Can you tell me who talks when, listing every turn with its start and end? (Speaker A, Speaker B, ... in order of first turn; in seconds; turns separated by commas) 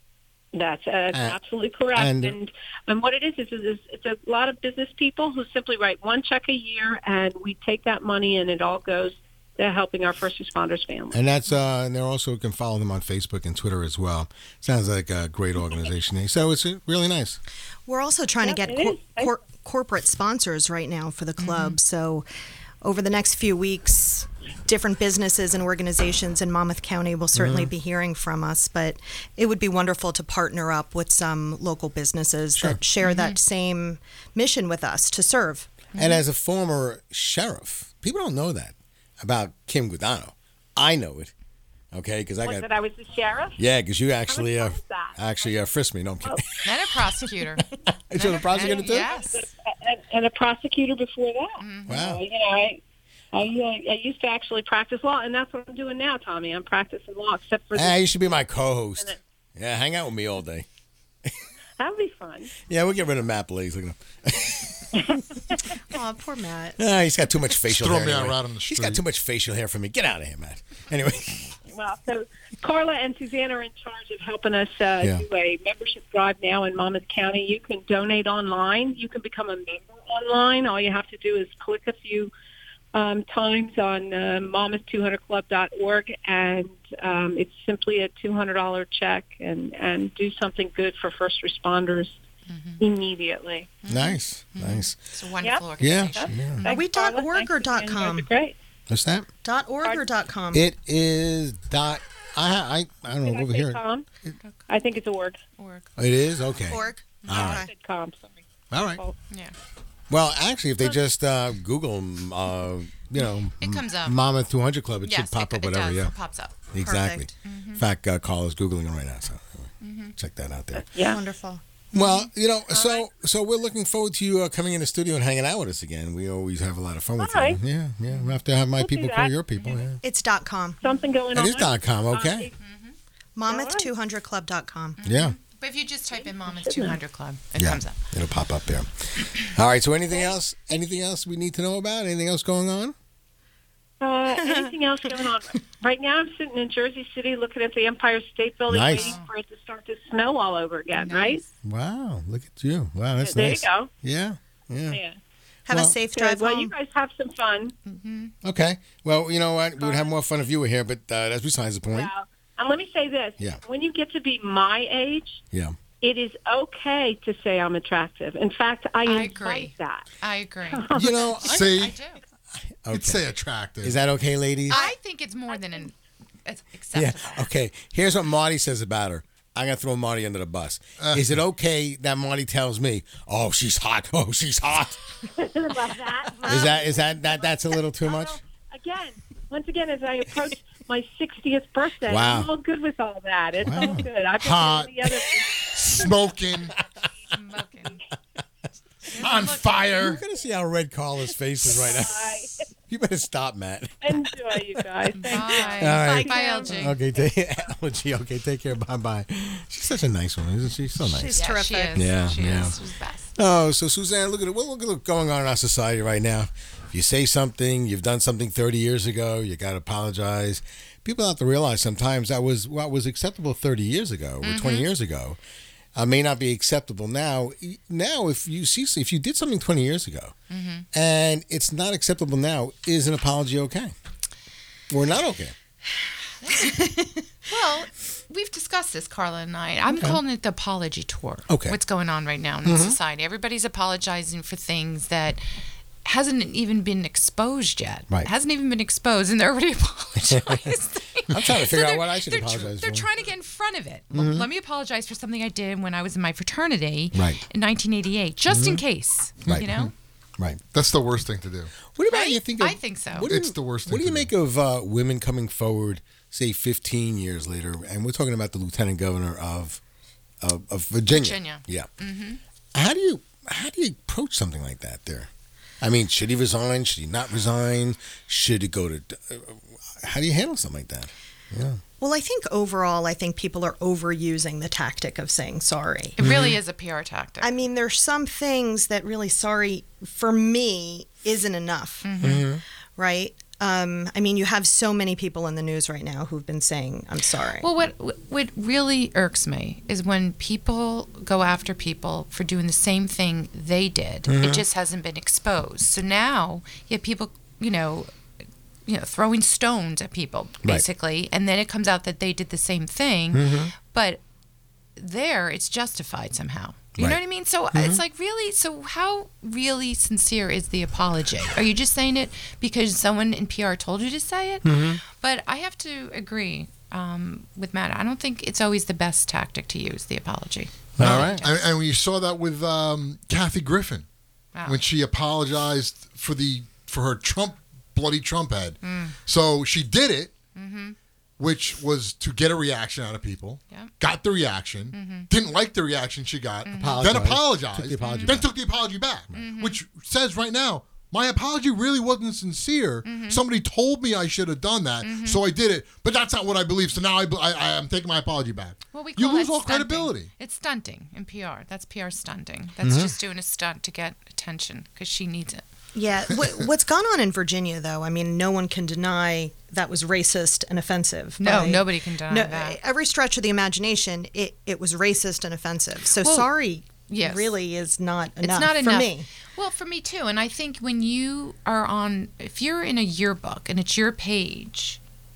Speaker A: 0.5-11.2, Speaker B: 1.1-1.4, Speaker B: 1.9-2.4, Speaker B: 11.1-17.4, Speaker C: 17.9-22.2, Speaker A: 18.4-19.3, Speaker D: 21.4-21.8, Speaker C: 22.8-35.8, Speaker B: 27.3-27.7, Speaker B: 32.5-32.8, Speaker D: 33.0-33.4, Speaker D: 35.9-36.2, Speaker B: 35.9-41.3, Speaker B: 41.9-42.7, Speaker A: 42.4-43.6, Speaker B: 43.6-46.9, Speaker A: 44.3-45.5, Speaker D: 46.6-49.5, Speaker B: 47.6-49.1, Speaker A: 48.5-52.8, Speaker D: 51.6-52.0, Speaker B: 51.9-52.2, Speaker A: 53.3-59.2, Speaker B: 57.7-60.6, Speaker A: 61.8-62.5, Speaker B: 62.7-65.4, Speaker C: 65.7-66.8, Speaker B: 66.8-71.6, Speaker E: 67.6-69.0, Speaker A: 71.7-82.3, Speaker A: 82.9-92.2, Speaker D: 92.5-92.8, Speaker A: 92.8-93.7, Speaker D: 93.8-96.7, Speaker B: 93.9-95.0, Speaker A: 95.4-98.5, Speaker B: 95.8-96.6, Speaker C: 96.6-98.3, Speaker B: 98.9-99.3, Speaker C: 99.4-100.6, Speaker B: 100.5-103.8, Speaker A: 103.2-104.0, Speaker D: 104.4-104.6, Speaker A: 104.7-105.4, Speaker D: 105.6-105.9, Speaker B: 106.0-107.7, Speaker C: 106.7-107.7, Speaker D: 107.2-107.5, Speaker A: 107.3-108.4, Speaker B: 108.7-109.0, Speaker B: 110.1-116.1, Speaker D: 113.2-114.2, Speaker D: 115.0-116.5, Speaker B: 116.7-120.9, Speaker C: 116.8-117.3, Speaker D: 117.4-117.8, Speaker D: 119.8-120.1, Speaker A: 120.8-121.2, Speaker C: 121.0-121.6, Speaker B: 121.9-130.0, Speaker D: 121.9-122.3, Speaker A: 122.7-123.0, Speaker A: 127.2-127.6, Speaker D: 128.1-128.3, Speaker A: 128.8-129.3, Speaker C: 130.0-130.8, Speaker A: 130.8-132.5, Speaker B: 131.3-132.5, Speaker D: 132.6-132.9, Speaker C: 133.3-135.0, Speaker A: 133.5-133.9, Speaker D: 135.0-138.0, Speaker B: 135.0-135.3, Speaker A: 136.2-137.0, Speaker B: 137.6-142.9, Speaker A: 144.0-151.4, Speaker C: 144.3-144.7, Speaker B: 148.7-149.2, Speaker D: 148.9-149.3, Speaker D: 150.9-151.4, Speaker B: 151.6-155.0, Speaker A: 153.2-153.9, Speaker A: 154.9-155.2, Speaker C: 155.7-156.7, Speaker B: 155.7-155.9, Speaker A: 156.1-157.7, Speaker D: 157.8-158.3, Speaker B: 158.4-162.1, Speaker A: 159.8-160.1, Speaker A: 161.9-165.4, Speaker A: 166.0-170.1, Speaker D: 169.0-172.2, Speaker A: 170.6-171.3, Speaker B: 170.9-171.9, Speaker E: 171.4-171.9, Speaker B: 172.5-173.2, Speaker E: 172.9-174.0, Speaker B: 173.8-174.8, Speaker D: 174.7-175.9, Speaker A: 175.5-175.9, Speaker D: 176.4-177.5, Speaker B: 176.9-185.1, Speaker E: 181.0-181.4, Speaker A: 185.4-196.1, Speaker C: 186.4-186.8, Speaker B: 186.4-188.4, Speaker B: 192.1-192.5, Speaker B: 193.6-194.1, Speaker E: 194.4-195.0, Speaker E: 195.8-196.8, Speaker D: 197.3-198.0, Speaker D: 199.2-199.9, Speaker E: 199.2-200.2, Speaker B: 200.0-204.8, Speaker A: 201.6-202.6, Speaker A: 204.0-206.9, Speaker D: 205.1-207.0, Speaker B: 205.5-211.4, Speaker C: 205.9-206.7, Speaker C: 211.0-212.1, Speaker D: 211.3-213.3, Speaker B: 211.9-212.8, Speaker B: 213.3-225.4, Speaker D: 224.4-224.9, Speaker B: 225.9-230.3, Speaker D: 230.5-230.8, Speaker B: 230.9-233.9, Speaker B: 234.9-235.5, Speaker D: 236.4-236.9, Speaker C: 236.7-237.1, Speaker D: 237.5-245.5, Speaker B: 239.9-240.2, Speaker B: 241.5-241.8, Speaker B: 242.6-243.0, Speaker D: 246.0-259.9, Speaker B: 250.3-250.7, Speaker B: 251.3-253.1, Speaker B: 254.1-254.5, Speaker B: 257.1-257.4, Speaker B: 258.5-258.8, Speaker E: 260.7-261.7, Speaker B: 261.9-269.8, Speaker D: 262.1-263.3, Speaker E: 263.2-264.3, Speaker B: 270.4-271.9, Speaker D: 271.1-272.4, Speaker B: 272.7-275.3, Speaker B: 275.8-281.8, Speaker C: 282.0-286.1, Speaker D: 286.1-287.5, Speaker B: 286.2-286.6, Speaker C: 287.4-292.3, Speaker D: 292.0-292.4, Speaker B: 292.2-292.6, Speaker C: 293.0-297.7, Speaker D: 297.6-308.1, Speaker B: 304.3-304.6, Speaker D: 308.9-314.2, Speaker B: 313.3-313.7, Speaker D: 314.9-331.7, Speaker B: 317.7-318.0, Speaker B: 324.6-325.0, Speaker B: 331.0-331.4, Speaker E: 331.0-334.1, Speaker D: 334.5-334.8, Speaker E: 334.6-340.3, Speaker D: 338.8-339.1, Speaker D: 340.5-340.9, Speaker E: 341.4-360.3, Speaker D: 344.9-345.3, Speaker D: 346.6-347.2, Speaker B: 346.8-348.4, Speaker D: 348.0-348.4, Speaker D: 349.3-349.8, Speaker D: 353.0-353.4, Speaker D: 355.0-355.4, Speaker D: 358.9-365.6, Speaker B: 362.8-363.1, Speaker C: 365.9-379.3, Speaker D: 371.4-372.8, Speaker D: 376.2-376.5, Speaker D: 377.1-377.5, Speaker D: 378.4-385.0